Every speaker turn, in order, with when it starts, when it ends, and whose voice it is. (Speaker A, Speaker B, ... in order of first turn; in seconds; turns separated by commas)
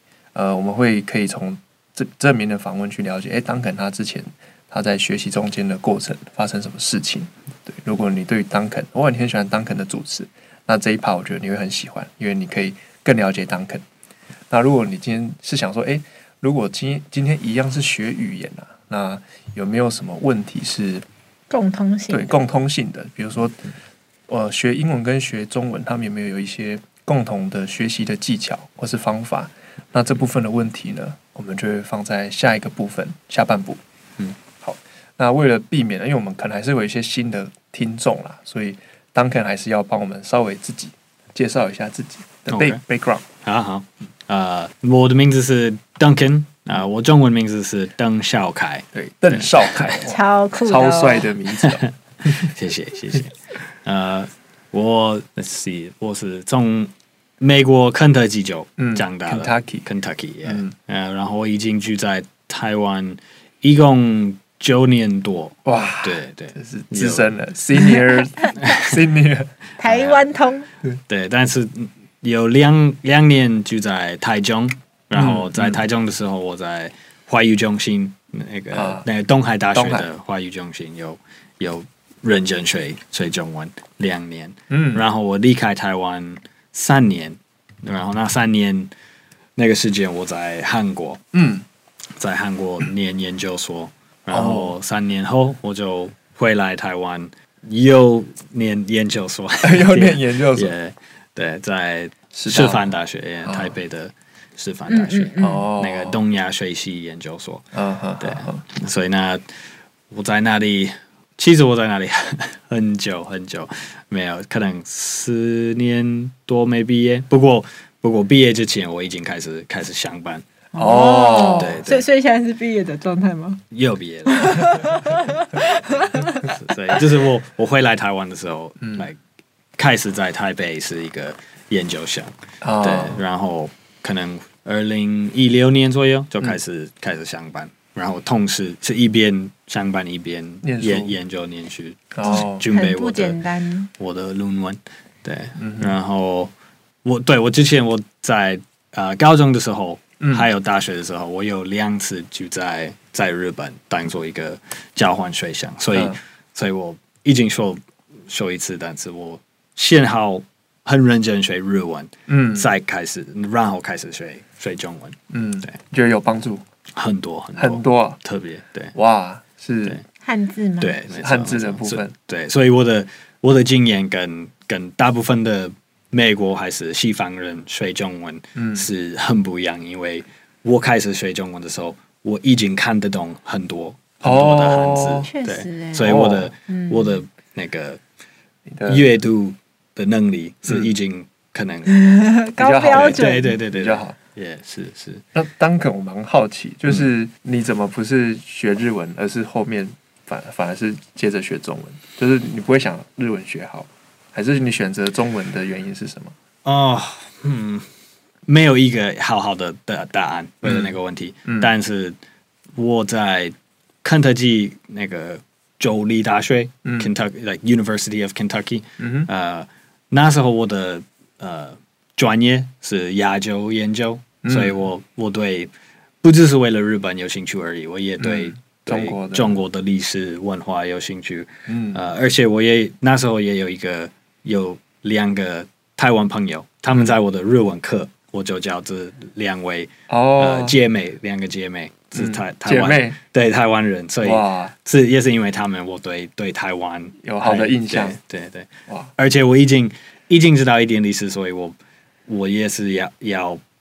Speaker A: 0.3-13.8, Speaker A: 14.5-21.1, Speaker B: 21.5-22.3, Speaker A: 22.1-23.6, Speaker A: 24.3-33.8, Speaker A: 34.6-43.2, Speaker C: 42.5-42.8, Speaker C: 43.4-49.9, Speaker A: 48.9-52.4, Speaker B: 50.0-51.4, Speaker C: 51.6-67.3, Speaker A: 58.8-59.9, Speaker A: 60.5-60.7, Speaker A: 65.7-69.5, Speaker C: 68.6-68.9, Speaker B: 69.8-70.7, Speaker C: 69.8-70.3, Speaker C: 71.1-88.9, Speaker A: 75.1-75.8, Speaker A: 78.7-79.1, Speaker A: 79.7-80.1, Speaker A: 84.7-85.0, Speaker C: 89.6-91.2, Speaker A: 91.3-91.7, Speaker C: 92.2-107.7, Speaker A: 94.3-94.8, Speaker A: 99.6-100.7, Speaker A: 102.3-102.9, Speaker A: 103.5-103.8, Speaker B: 104.9-105.7, Speaker A: 105.4-106.2, Speaker A: 107.7-108.6, Speaker C: 108.2-109.4, Speaker C: 110.1-120.5, Speaker B: 120.7-123.6, Speaker A: 120.8-121.8, Speaker C: 121.4-122.1, Speaker C: 123.7-125.3, Speaker B: 124.3-126.5, Speaker C: 125.8-129.2, Speaker A: 128.8-129.1, Speaker C: 129.8-143.4, Speaker A: 132.6-133.2, Speaker A: 140.6-141.2, Speaker A: 142.1-142.7, Speaker B: 142.3-143.9, Speaker C: 144.0-146.5, Speaker A: 145.6-145.9, Speaker C: 147.0-165.7, Speaker A: 150.2-150.5, Speaker A: 162.3-162.7, Speaker A: 165.3-166.6, Speaker C: 166.9-168.9, Speaker A: 167.6-168.2, Speaker A: 168.9-170.0, Speaker B: 170.2-171.0, Speaker C: 170.8-188.0, Speaker A: 171.1-172.2, Speaker A: 178.6-178.9, Speaker A: 184.2-185.3, Speaker B: 185.2-186.2, Speaker A: 186.0-186.5, Speaker B: 186.7-187.2, Speaker A: 188.7-189.1, Speaker C: 188.9-191.9, Speaker A: 190.7-190.9, Speaker B: 191.9-193.6, Speaker A: 192.6-194.2, Speaker C: 192.9-195.2, Speaker A: 195.3-206.3, Speaker C: 206.7-207.9, Speaker C: 208.5-212.2, Speaker A: 210.6-211.7, Speaker C: 212.8-225.7, Speaker A: 216.8-217.1, Speaker A: 219.0-219.3, Speaker A: 224.4-224.8, Speaker C: 226.2-253.6, Speaker A: 228.2-229.6, Speaker A: 231.7-232.0, Speaker A: 240.1-240.8, Speaker A: 242.2-243.2, Speaker A: 244.2-244.7, Speaker A: 247.2-248.2